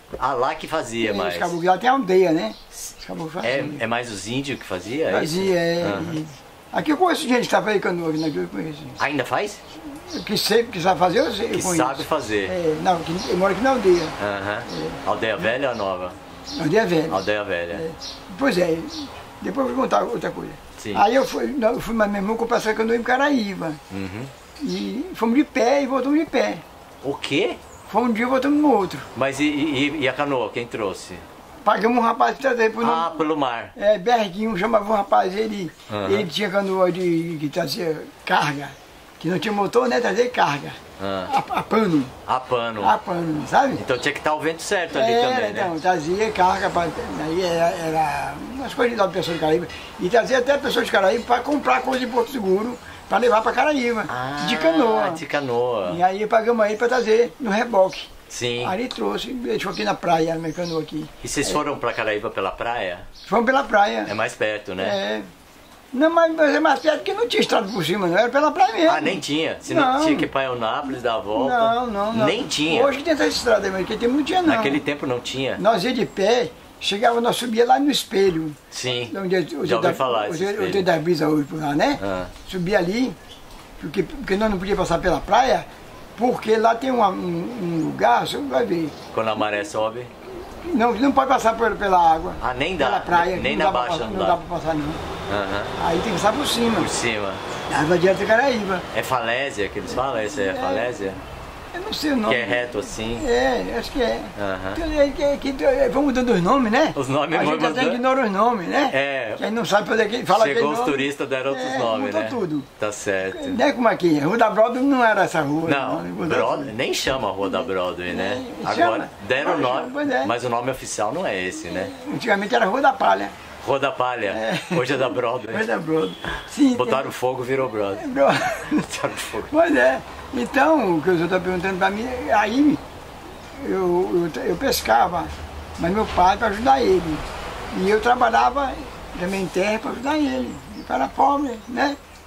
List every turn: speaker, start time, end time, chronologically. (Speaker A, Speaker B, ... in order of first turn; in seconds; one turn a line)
Speaker A: 0.2-1.6
Speaker B: 1.0-3.8
Speaker A: 2.7-6.2
Speaker B: 5.1-9.0
Speaker A: 9.0-9.6
Speaker B: 9.9-14.2
Speaker A: 11.5-12.5
Speaker A: 14.2-16.1
Speaker B: 14.7-15.0
Speaker B: 16.6-17.2
Speaker A: 17.1-17.9
Speaker B: 17.7-23.8
Speaker A: 20.8-21.1
Speaker A: 23.9-24.3
Speaker B: 24.6-26.6
Speaker A: 27.0-27.6
Speaker B: 27.9-29.1
Speaker A: 29.1-31.2
Speaker B: 31.6-33.2
Speaker A: 32.8-33.7
Speaker B: 33.8-42.1
Speaker A: 35.9-36.3
Speaker A: 41.0-41.3
Speaker A: 42.3-43.0
Speaker B: 42.8-43.8
Speaker A: 43.8-45.7
Speaker B: 44.9-55.2
Speaker A: 54.1-56.0
Speaker B: 55.9-61.6
Speaker A: 58.3-58.8
Speaker A: 61.2-63.1
Speaker B: 63.3-64.1
Speaker A: 64.1-65.0
Speaker B: 64.8-65.3
Speaker B: 65.9-70.3
Speaker A: 68.9-73.0
Speaker B: 71.3-74.8
Speaker A: 74.4-75.6
Speaker B: 75.6-78.6
Speaker A: 78.7-80.9
Speaker B: 79.1-83.2
Speaker A: 82.0-82.3
Speaker B: 83.8-89.0
Speaker A: 89.1-90.1
Speaker B: 90.6-95.0
Speaker A: 92.4-94.4
Speaker A: 95.3-95.8
Speaker B: 95.8-96.9
Speaker A: 96.7-97.4
Speaker B: 97.7-98.9
Speaker A: 98.9-101.2
Speaker B: 100.3-101.2
Speaker B: 101.7-112.7
Speaker A: 102.2-103.3
Speaker A: 104.4-104.8
Speaker A: 107.0-108.0
Speaker A: 108.9-109.4
Speaker A: 110.3-113.6
Speaker B: 113.3-116.7
Speaker A: 115.7-121.9
Speaker B: 118.1-120.3
Speaker B: 121.8-123.3
Speaker A: 123.6-125.7
Speaker B: 124.3-127.1
Speaker A: 126.7-128.0
Speaker B: 128.0-128.9
Speaker A: 128.8-129.5
Speaker B: 129.5-132.8
Speaker B: 133.6-142.0